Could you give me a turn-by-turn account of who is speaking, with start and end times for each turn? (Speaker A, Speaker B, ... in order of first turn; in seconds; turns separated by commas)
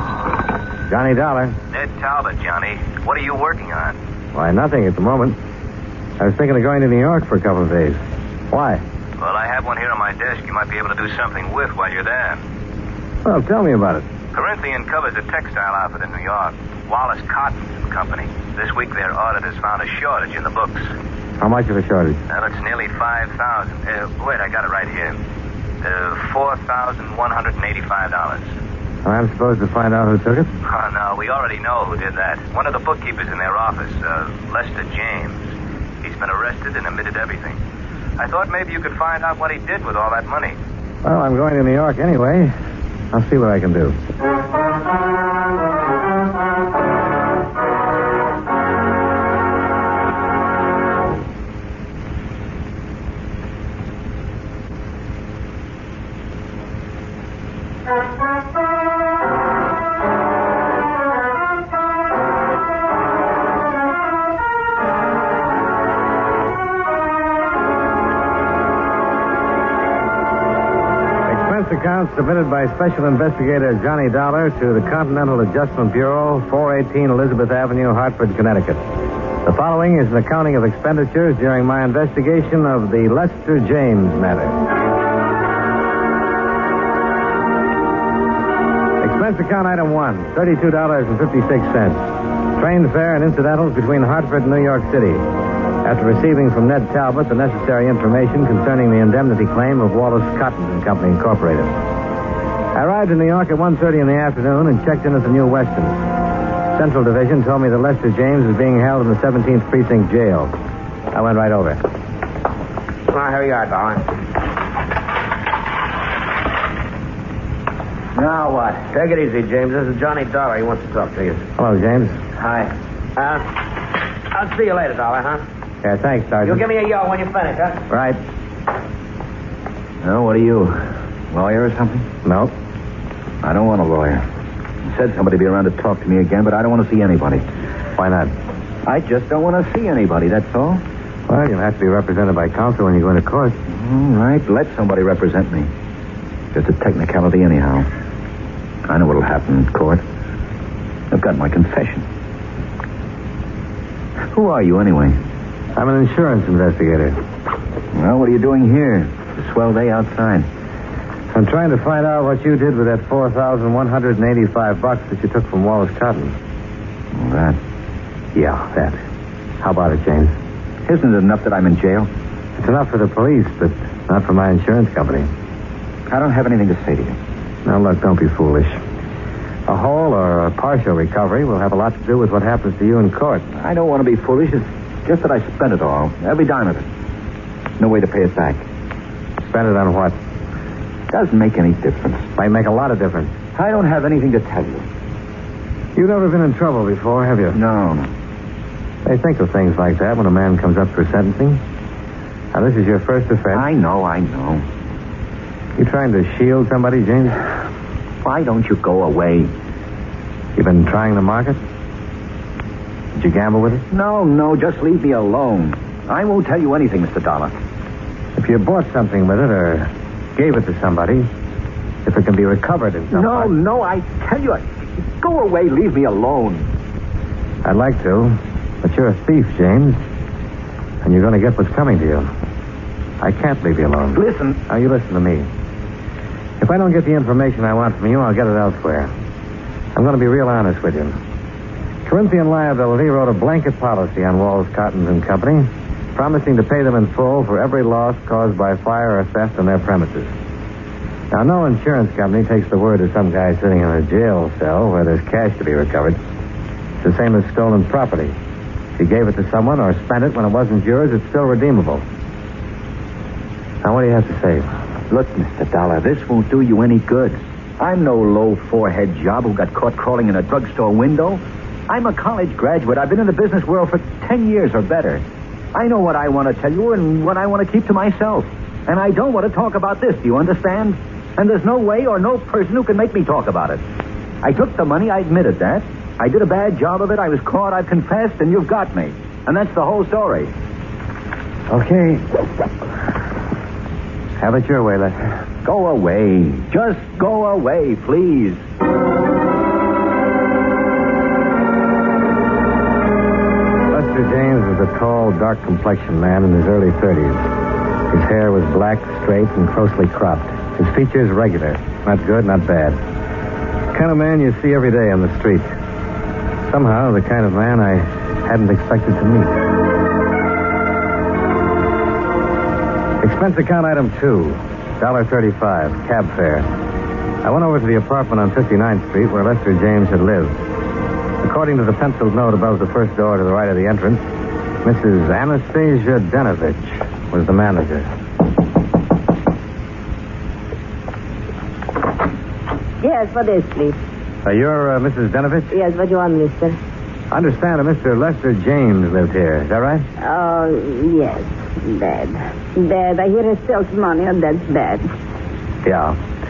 Speaker A: 0.9-1.6, Speaker B: 1.7-4.0, Speaker A: 4.3-5.4, Speaker A: 6.2-8.8, Speaker B: 9.2-12.4, Speaker A: 13.2-14.1, Speaker B: 14.3-20.9, Speaker A: 21.4-22.2, Speaker B: 22.3-25.2, Speaker B: 25.8-28.5, Speaker A: 29.0-30.5, Speaker B: 30.7-35.4, Speaker B: 36.0-37.6, Speaker B: 38.2-40.5, Speaker A: 41.0-42.5, Speaker A: 43.1-44.0, Speaker A: 71.2-78.8, Speaker A: 79.4-84.7, Speaker A: 89.0-95.2, Speaker A: 95.8-101.8, Speaker A: 102.7-106.0, Speaker A: 106.7-110.5, Speaker A: 111.1-111.8, Speaker C: 113.1-114.1, Speaker D: 118.2-118.9, Speaker C: 118.9-121.4, Speaker A: 121.6-122.2, Speaker D: 122.4-122.7, Speaker C: 123.2-123.5, Speaker C: 124.3-125.4, Speaker A: 125.8-126.6, Speaker C: 126.5-127.8, Speaker A: 127.9-128.2, Speaker D: 130.0-132.1, Speaker A: 132.2-132.5, Speaker D: 133.4-134.2, Speaker D: 134.9-137.4, Speaker A: 138.0-138.3, Speaker D: 138.8-140.8, Speaker A: 141.3-143.6, Speaker D: 143.7-145.7, Speaker D: 146.5-147.9, Speaker D: 148.9-150.0, Speaker D: 151.1-152.0, Speaker D: 154.3-155.2, Speaker A: 155.8-157.2, Speaker D: 157.9-160.5, Speaker A: 161.3-166.3, Speaker D: 167.1-167.6, Speaker A: 168.3-169.0, Speaker A: 169.6-170.3, Speaker D: 170.8-172.1, Speaker A: 172.6-175.3, Speaker D: 176.1-177.2, Speaker A: 177.6-178.8, Speaker A: 179.7-183.4, Speaker D: 183.6-186.9, Speaker D: 187.8-188.6, Speaker A: 189.4-190.2, Speaker D: 191.1-192.3, Speaker A: 192.4-193.3, Speaker D: 193.5-194.9, Speaker A: 195.9-197.6, Speaker D: 197.5-198.1, Speaker A: 199.0-201.6, Speaker A: 202.5-203.7, Speaker D: 203.5-204.6, Speaker A: 205.8-207.4, Speaker D: 208.2-209.5, Speaker A: 210.6-211.6, Speaker A: 213.2-213.8, Speaker D: 213.9-217.5, Speaker A: 218.3-221.3, Speaker A: 222.0-223.5, Speaker D: 223.1-226.7, Speaker A: 227.6-230.0, Speaker A: 231.0-232.3, Speaker A: 233.2-235.5, Speaker D: 234.2-234.6, Speaker A: 236.6-239.1, Speaker A: 239.9-241.2, Speaker A: 242.0-250.3, Speaker A: 251.3-256.2, Speaker A: 257.0-258.4, Speaker A: 259.0-262.1, Speaker A: 263.8-264.7, Speaker D: 265.1-275.2, Speaker D: 275.7-283.8, Speaker D: 284.4-290.5, Speaker A: 291.7-292.2, Speaker A: 294.4-295.2, Speaker D: 295.6-298.6, Speaker A: 303.9-307.5, Speaker A: 308.1-313.0, Speaker A: 313.9-315.8, Speaker A: 316.7-319.6, Speaker A: 323.2-326.7, Speaker A: 327.4-330.6, Speaker A: 331.4-334.3, Speaker A: 334.8-338.1, Speaker E: 343.0-344.0, Speaker A: 344.4-345.8, Speaker E: 345.7-346.8, Speaker A: 347.3-350.1, Speaker E: 350.2-355.1, Speaker A: 355.8-356.2